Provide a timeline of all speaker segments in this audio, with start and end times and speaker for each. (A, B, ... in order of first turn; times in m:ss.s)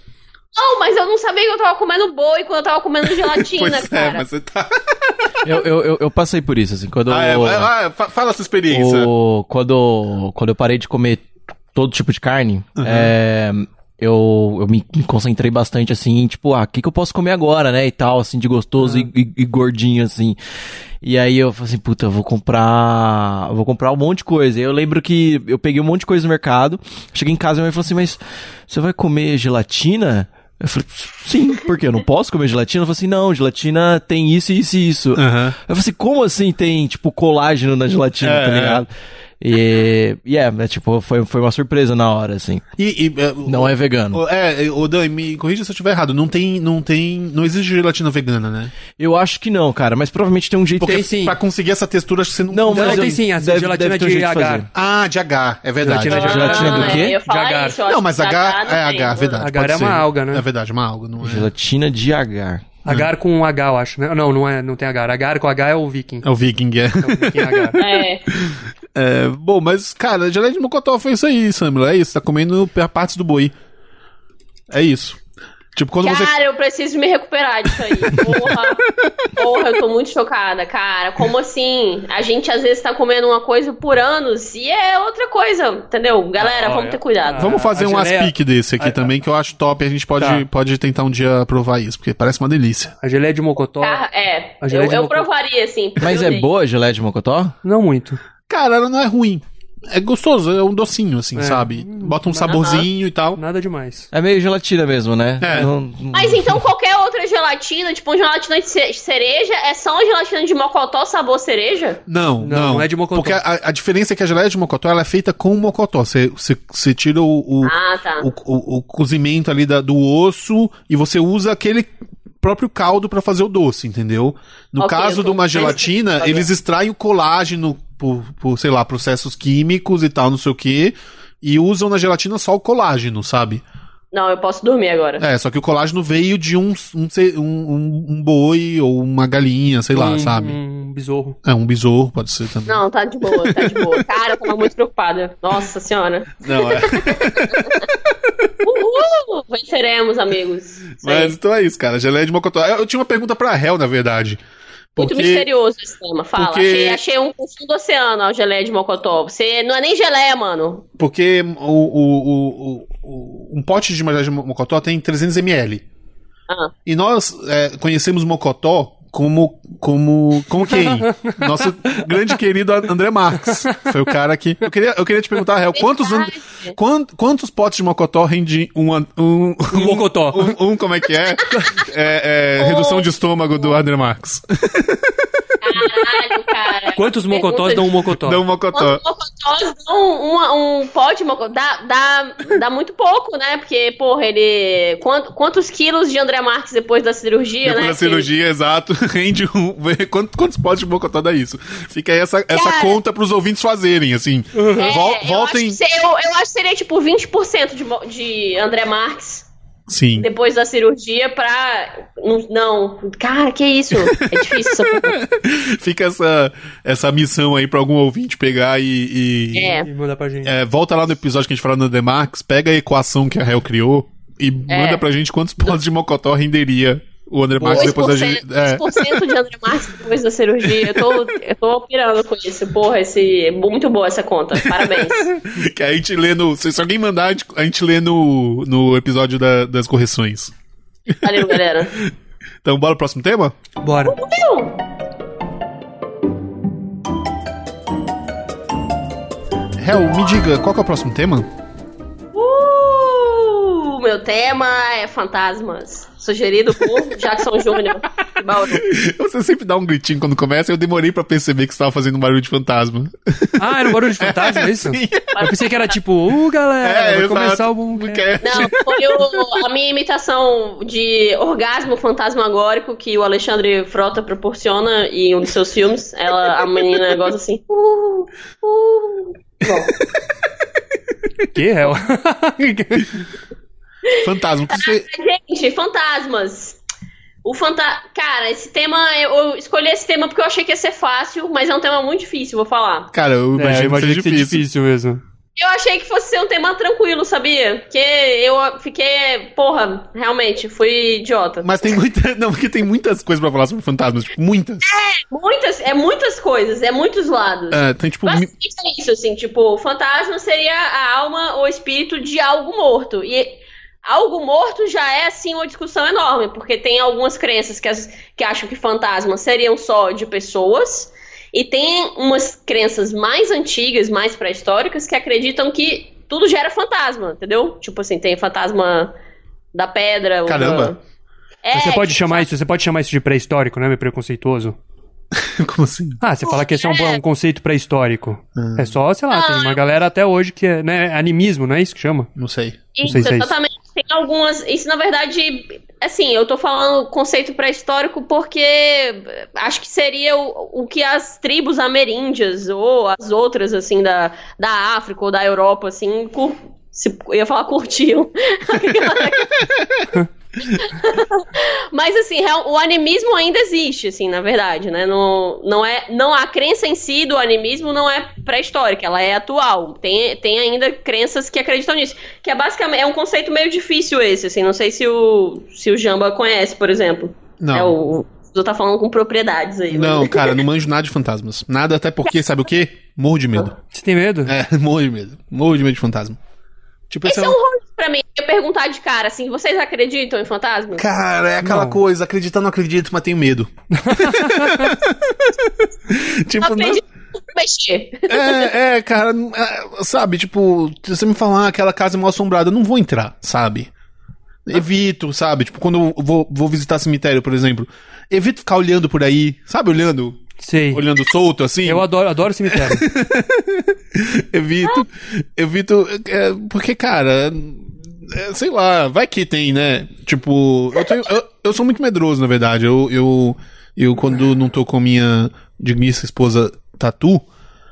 0:00.5-0:04.2 A
0:03.1-0:05.3 B
0:05.4-0:07.7 C
0:07.1-0:09.1 B
0:08.7-0:20.4 C
0:12.8-0:13.1 B
0:18.8-0:19.1 D
0:21.0-0:38.9 C
0:35.1-0:35.6 B
0:38.2-0:38.8 B
0:39.4-0:42.6 C
0:42.8-0:48.7 B
0:43.4-0:44.2 C
0:49.0-0:51.0 C
0:50.8-0:51.4 D
0:50.8-0:53.2 B
0:52.5-0:54.7 C
0:52.7-0:54.6 D
0:54.7-0:57.0 B
0:55.8-0:57.8 D
0:55.8-0:57.2 C
0:56.5-0:59.4 A
0:57.8-1:01.5 B
0:59.4-1:00.4 D
1:01.2-1:02.7 C
1:02.8-1:06.2 D
1:06.2-1:13.5 B
1:07.0-1:07.8 D
1:07.8-1:08.2 A
1:14.7-1:15.2 B
1:15.7-1:16.3 B
1:16.0-1:18.8 A
1:17.8-1:19.7 B
1:19.4-1:27.5 A
1:26.4-1:29.1 D
1:27.4-1:32.9 B
1:30.2-1:30.4 D
1:33.0-1:34.0 D
1:33.8-1:36.5 A
1:34.6-1:35.3 D
1:36.0-1:37.5 C
1:37.6-1:38.2 D
1:38.5-1:43.4 B
1:41.4-1:42.7 D
1:42.6-1:42.8 A
1:43.3-1:44.1 D
1:44.1-1:46.6 C
1:45.4-1:45.7 B
1:46.1-1:52.0 A
1:52.1-2:01.9 B
1:52.4-1:53.4 D
1:57.6-1:58.3 A
2:02.4-2:13.6 B
2:04.8-2:06.5 A
2:14.1-2:15.2 A
2:15.2-2:20.6 B
2:19.9-2:21.4 D
2:21.4-2:24.7 B
2:22.7-2:27.8 A
2:26.4-2:28.5 B
2:28.6-2:31.3 A
2:31.0-2:34.4 B
2:34.9-2:35.5 B
2:35.0-2:40.9 A
2:36.4-2:37.0 B
2:41.0-2:45.8 B
2:46.8-3:05.3 B
2:50.7-2:52.0 D
2:55.7-2:56.7 A
2:59.7-3:00.5 D
3:02.6-3:03.0 A
3:05.6-3:07.9 A
3:06.9-3:08.4 D
3:08.2-3:09.0 B
3:08.7-3:18.3 A
3:17.6-3:25.8 B
3:22.5-3:23.0 A
3:24.5-3:24.9 D
3:24.8-3:29.5 A
3:29.9-3:30.3 B
3:30.2-3:35.2 A
3:34.0-3:39.9 B
3:39.5-3:39.9 A
3:39.8-3:40.6 D
3:40.4-3:49.2 B
3:44.7-3:45.0 A
3:47.6-3:48.0 D
3:47.7-3:55.3 A
3:50.6-3:51.2 B
3:54.6-4:00.5 B
4:01.1-4:01.6 B
4:01.2-4:02.0 A
4:02.6-4:03.5 B
4:03.8-4:04.2 D
4:04.1-4:04.8 A
4:09.8-4:11.5 B
4:12.3-4:18.9 A
4:18.5-4:25.4 B
4:23.6-4:28.3 D
4:25.3-4:25.9 A
4:26.8-4:29.6 B
4:28.4-4:40.0 A
4:41.5-4:43.2 D
4:44.2-4:45.1 B
4:44.7-4:46.8 A
4:47.4-4:53.1 A
4:53.1-4:54.6 B
4:53.6-4:55.2 D
4:55.6-5:01.7 A
5:01.6-5:04.9 B
5:04.8-5:29.1 A
5:07.7-5:08.5 B
5:29.7-5:31.0 A
5:30.4-5:30.9 B
5:31.6-5:32.4 A
5:31.7-5:34.8 D
5:35.4-5:36.2 B
5:36.2-5:42.3 D
5:36.4-5:37.2 A
5:38.6-5:39.0 B
5:39.3-5:39.8 A
5:42.4-5:43.3 B
5:43.0-5:59.6 A
5:43.0-5:43.5 D
5:59.6-6:00.1 B
6:00.7-6:20.6 A
6:17.6-6:18.0 B
6:19.9-6:23.7 B
6:23.9-6:24.5 D
6:24.4-6:26.4 B
6:27.1-6:27.6 B
6:27.2-6:31.1 A
6:30.9-6:37.0 B
6:31.6-6:32.0 D
6:33.9-6:34.9 D
6:36.6-6:38.7 A
6:38.3-6:43.9 B
6:44.6-6:50.4 B
6:50.6-6:51.0 D
6:50.9-6:52.1 B
6:51.8-6:53.0 D
6:52.6-7:07.4 B